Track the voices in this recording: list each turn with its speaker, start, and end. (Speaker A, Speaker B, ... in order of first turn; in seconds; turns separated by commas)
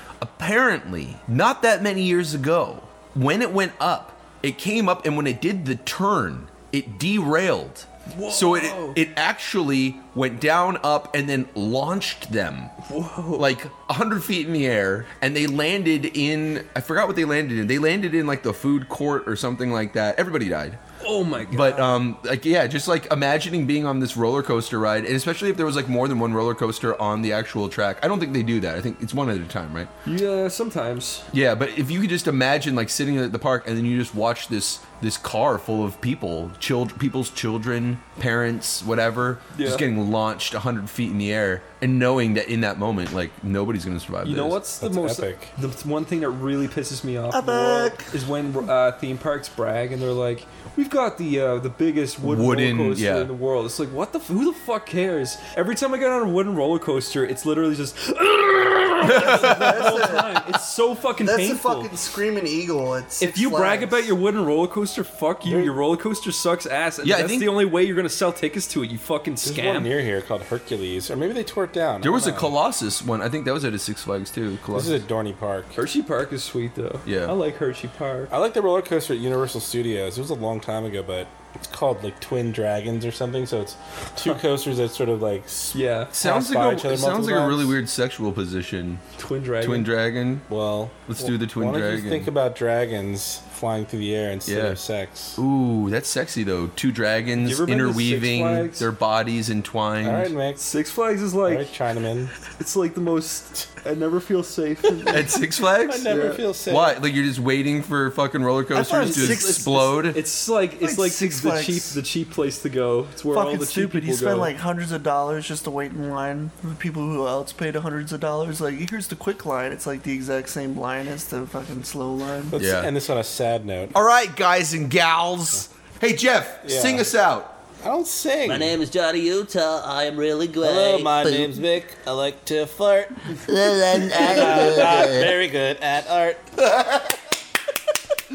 Speaker A: 0.2-12.7, Speaker B: 8.1-9.0, Speaker B: 12.8-13.5, Speaker A: 13.4-20.8, Speaker B: 21.0-22.1, Speaker A: 21.5-29.9, Speaker B: 30.1-31.3, Speaker A: 31.3-44.6, Speaker B: 39.5-39.9, Speaker B: 44.2-61.9, Speaker C: 44.8-45.5, Speaker D: 47.3-48.1, Speaker A: 52.2-53.3, Speaker D: 59.0-60.4, Speaker A: 59.0-59.6, Speaker D: 61.2-64.1, Speaker B: 63.2-69.9, Speaker C: 65.5-65.7, Speaker A: 67.0-67.6, Speaker C: 69.4-72.5, Speaker A: 72.0-75.0, Speaker C: 74.7-75.8, Speaker B: 75.8-78.3, Speaker A: 77.1-77.3, Speaker C: 78.3-87.8, Speaker B: 85.7-86.1, Speaker A: 86.1-89.0, Speaker B: 89.2-89.9, Speaker A: 89.6-90.5, Speaker C: 90.5-95.4, Speaker A: 91.1-92.3, Speaker A: 94.5-94.8, Speaker A: 95.4-100.3, Speaker B: 97.4-98.9, Speaker C: 100.0-100.6, Speaker B: 100.6-101.7, Speaker C: 101.5-102.3, Speaker B: 102.5-105.4, Speaker A: 105.1-110.2, Speaker C: 105.9-107.0, Speaker B: 106.1-106.4, Speaker D: 108.7-109.8, Speaker B: 108.9-114.5, Speaker D: 110.8-112.0, Speaker D: 113.3-122.6, Speaker C: 122.5-124.0, Speaker A: 122.6-122.9, Speaker A: 123.9-127.6, Speaker C: 126.6-127.1, Speaker C: 127.8-128.8, Speaker E: 128.4-131.5, Speaker C: 130.6-133.5, Speaker E: 133.4-135.3, Speaker C: 134.1-136.5